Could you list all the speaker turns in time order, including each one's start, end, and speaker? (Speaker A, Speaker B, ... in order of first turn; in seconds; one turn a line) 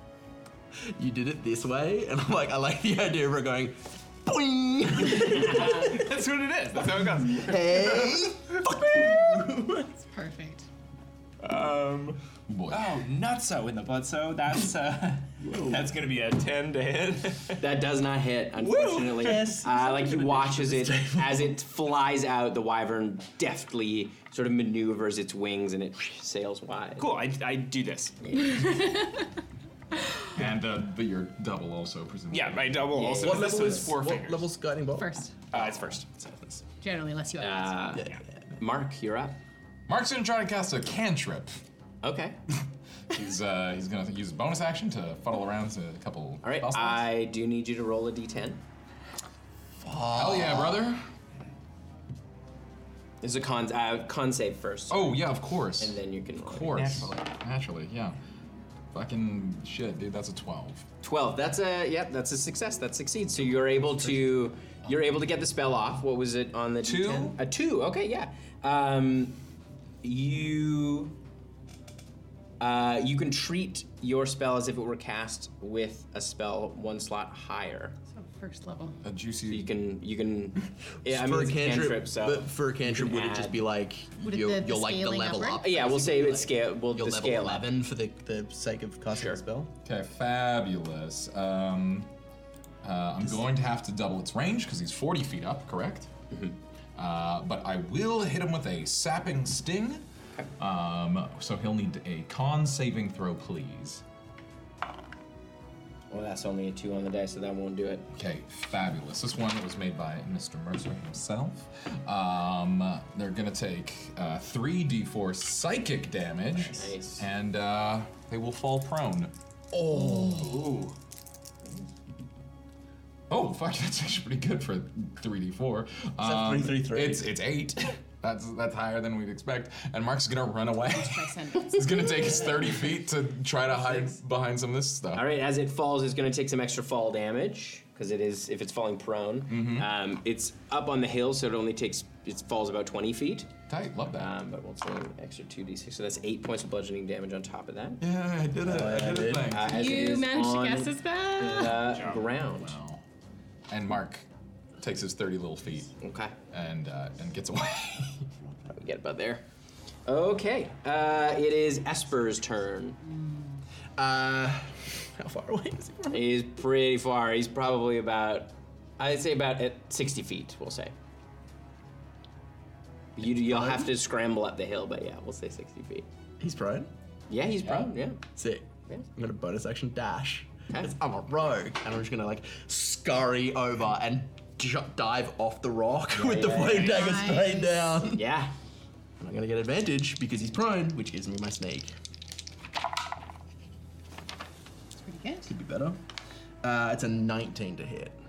Speaker A: 0.8-6.0
Speaker B: 5.2-8.7
Speaker A: 7.0-9.9
Speaker C: 9.9-10.7
Speaker B: 11.4-17.6
Speaker D: 12.5-13.0
Speaker A: 15.4-15.9
Speaker E: 17.6-27.1
Speaker B: 18.6-19.6
Speaker A: 18.7-21.5
Speaker B: 27.0-28.3
Speaker E: 28.2-28.5
Speaker C: 28.4-29.3
Speaker D: 30.3-32.9
Speaker B: 32.3-34.5
Speaker E: 32.9-33.9
Speaker A: 33.2-35.2
Speaker C: 35.0-35.4
Speaker B: 35.5-36.2
Speaker C: 36.8-38.0
Speaker E: 37.4-39.4
Speaker A: 37.9-38.4
Speaker D: 39.9-41.6
Speaker E: 42.0-42.4
Speaker D: 43.1-47.1
Speaker E: 46.4-48.6
Speaker A: 49.8-50.9
Speaker D: 50.1-51.0
Speaker E: 53.2-57.1
Speaker D: 54.9-58.2
Speaker D: 58.9-60.9
Speaker E: 61.0-69.4
Speaker D: 66.8-67.3
Speaker E: 70.0-71.1
Speaker E: 72.6-78.0
Speaker C: 78.1-79.0
Speaker D: 79.0-79.7
Speaker E: 79.5-83.6
Speaker A: 81.0-89.7
Speaker C: 84.2-85.6
Speaker E: 85.6-87.7
Speaker E: 89.1-89.4
Speaker D: 89.8-92.1
Speaker D: 92.8-96.1
Speaker E: 96.3-96.6
Speaker D: 97.0-100.0
Speaker D: 100.6-104.0
Speaker E: 106.1-108.1
Speaker D: 108.1-119.3
Speaker E: 116.5-117.3
Speaker A: 119.7-120.7
Speaker E: 120.3-120.9
Speaker D: 123.3-135.2
Speaker A: 126.2-127.3
Speaker C: 130.8-132.4
Speaker E: 135.1-143.5
Speaker D: 139.5-139.9
Speaker D: 143.7-144.3
Speaker E: 144.1-148.0
Speaker D: 148.0-150.1
Speaker A: 148.6-149.6
Speaker E: 149.5-152.7
Speaker C: 149.7-151.9
Speaker B: 151.8-152.2
Speaker D: 152.4-153.0
Speaker D: 153.7-154.2
Speaker D: 154.8-156.0
Speaker E: 156.0-156.3
Speaker D: 156.5-158.2
Speaker E: 158.7-159.4
Speaker E: 160.1-163.0
Speaker A: 164.0-166.3
Speaker E: 166.1-170.9
Speaker E: 173.2-176.1
Speaker A: 173.2-173.9
Speaker A: 176.4-176.9
Speaker E: 177.3-178.2
Speaker D: 177.6-177.9
Speaker A: 178.3-188.3
Speaker E: 186.1-187.3
Speaker C: 186.7-187.7
Speaker E: 188.1-188.5
Speaker A: 189.2-191.9
Speaker C: 195.0-195.5
Speaker A: 195.4-196.0
Speaker A: 196.6-198.2